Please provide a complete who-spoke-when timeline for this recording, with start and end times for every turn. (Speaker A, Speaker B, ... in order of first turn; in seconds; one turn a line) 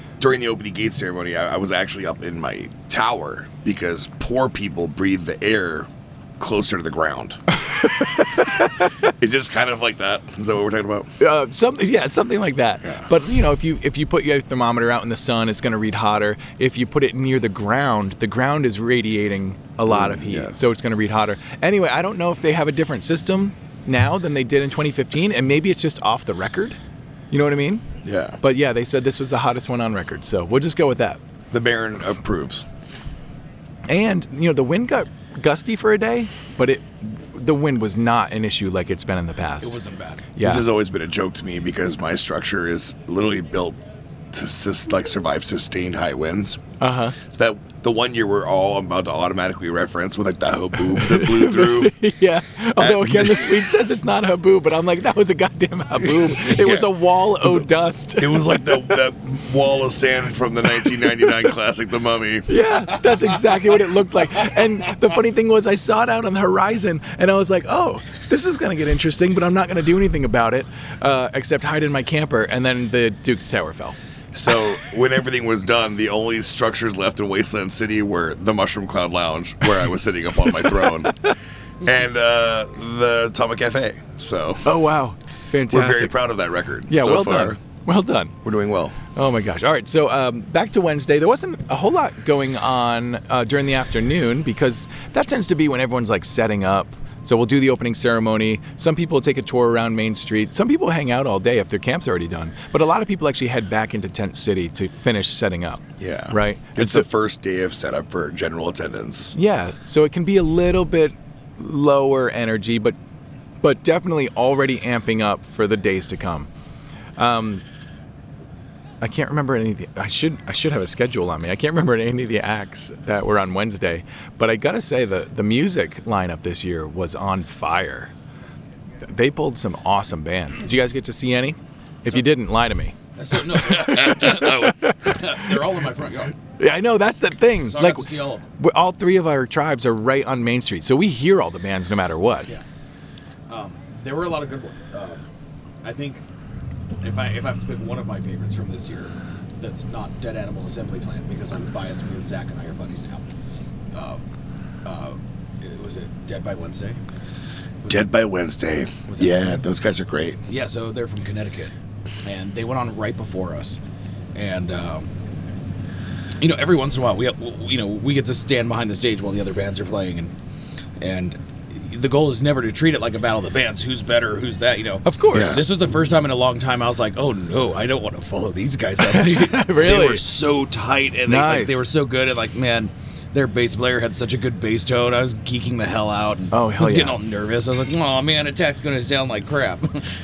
Speaker A: 0.2-7.4
Speaker A: 9.2-11.1
Speaker B: 11.2-26.8
Speaker A: 19.9-20.7
Speaker B: 27.3-27.8
Speaker A: 28.0-28.4
Speaker B: 28.4-31.2
Speaker A: 31.5-32.6
Speaker B: 33.9-39.7
Speaker C: 39.6-40.3
Speaker B: 40.4-40.6
Speaker A: 40.4-43.8
Speaker A: 44.3-46.6
Speaker B: 46.8-47.2
Speaker A: 47.2-52.0
Speaker B: 50.9-58.8
Speaker A: 52.8-53.6
Speaker A: 56.2-62.6
Speaker B: 62.5-74.0
Speaker A: 74.3-81.1
Speaker A: 81.8-84.7
Speaker B: 84.6-86.2
Speaker A: 85.7-87.6
Speaker B: 86.9-88.3
Speaker A: 88.4-89.0
Speaker B: 89.1-107.1
Speaker A: 106.0-109.3
Speaker B: 109.3-113.0
Speaker B: 113.6-116.5
Speaker B: 117.2-117.6
Speaker B: 119.0-128.1
Speaker B: 129.0-133.0
Speaker C: 133.2-136.3
Speaker A: 133.7-134.9
Speaker B: 136.6-142.5
Speaker C: 137.7-138.4
Speaker C: 143.5-145.2
Speaker C: 145.8-146.2
Speaker C: 147.0-153.3
Speaker C: 153.9-154.2
Speaker C: 154.8-157.0
Speaker A: 157.9-160.4
Speaker C: 159.1-159.6
Speaker C: 160.5-161.7
Speaker C: 162.2-163.8
Speaker C: 164.3-165.1
Speaker C: 166.4-170.3
Speaker C: 171.0-190.1
Speaker B: 175.0-175.7
Speaker A: 175.3-175.7
Speaker B: 179.0-180.2
Speaker B: 181.3-181.8
Speaker B: 186.5-187.2